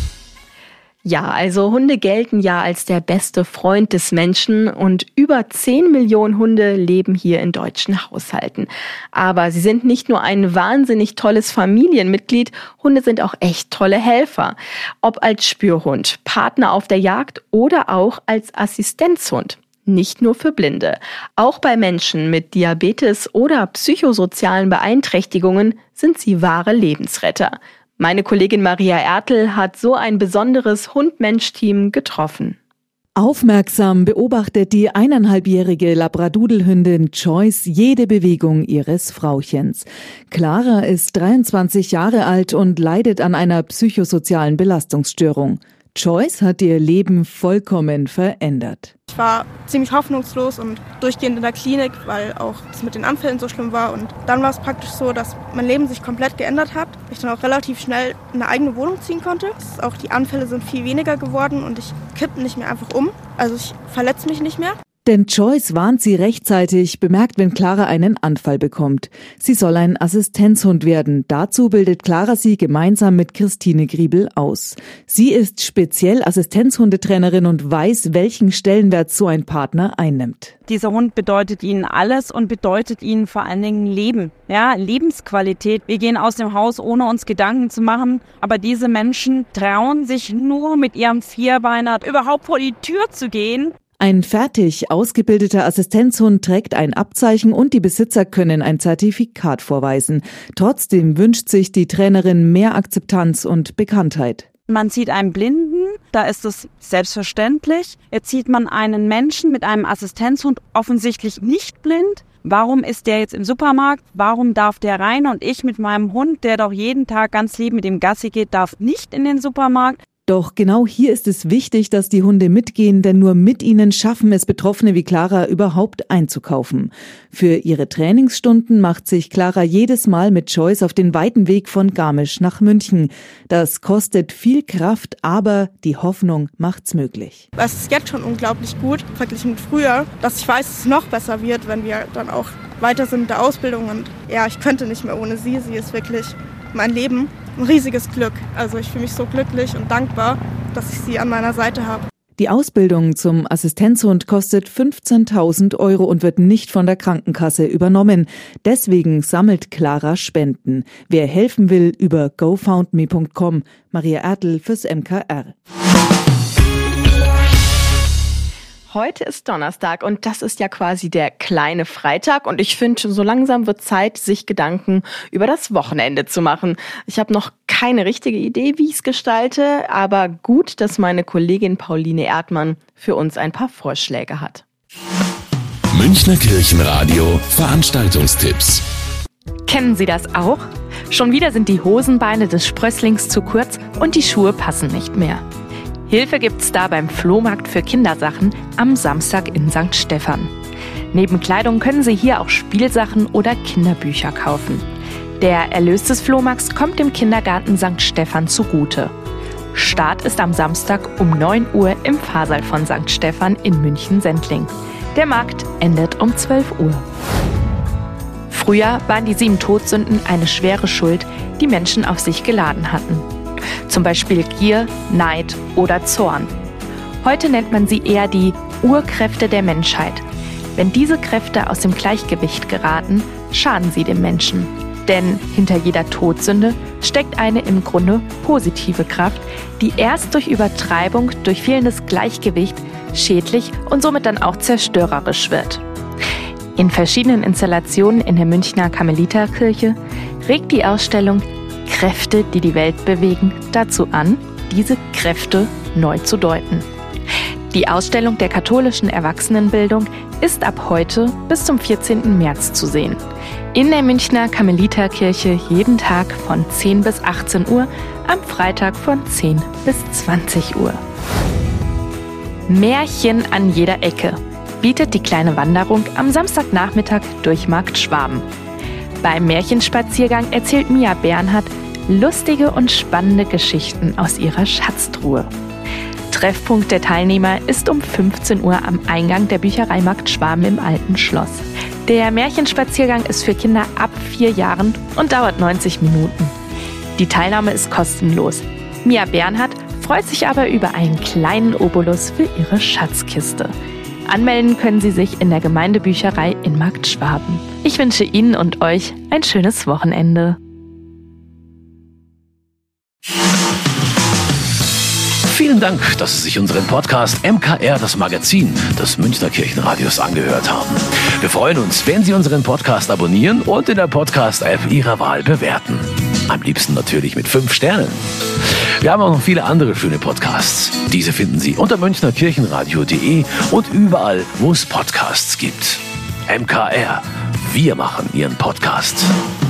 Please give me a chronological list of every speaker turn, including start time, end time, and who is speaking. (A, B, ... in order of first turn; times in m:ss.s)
0:01.0-0:32.6 A
0:33.2-0:48.9 B
0:49.1-1:04.7 C
1:05.0-1:20.5 B
1:20.7-1:33.7 D
1:34.0-1:44.5 B
1:44.7-2:00.0 D
2:00.3-2:17.4 B
2:17.6-2:32.0 C
2:32.4-2:45.5 B
2:48.9-3:04.6 A
3:05.9-3:08.8 E
3:09.7-3:15.4 F
3:16.1-3:20.5 F
3:21.1-3:24.8 F
3:25.4-3:29.1 F
3:29.7-3:37.0 F
3:38.5-3:43.2 F
3:43.9-3:46.5 F
3:47.2-3:50.2 F
3:50.8-4:05.8 F
4:06.8-4:16.8 F
4:17.7-4:23.2 F
4:23.7-4:31.0 F
4:32.7-4:38.4 F
4:39.2-4:45.5 F
4:46.3-4:56.5 F
4:57.2-5:03.7 F
5:04.2-5:10.6 F
5:15.5-5:28.2 G
5:29.0-5:39.3 G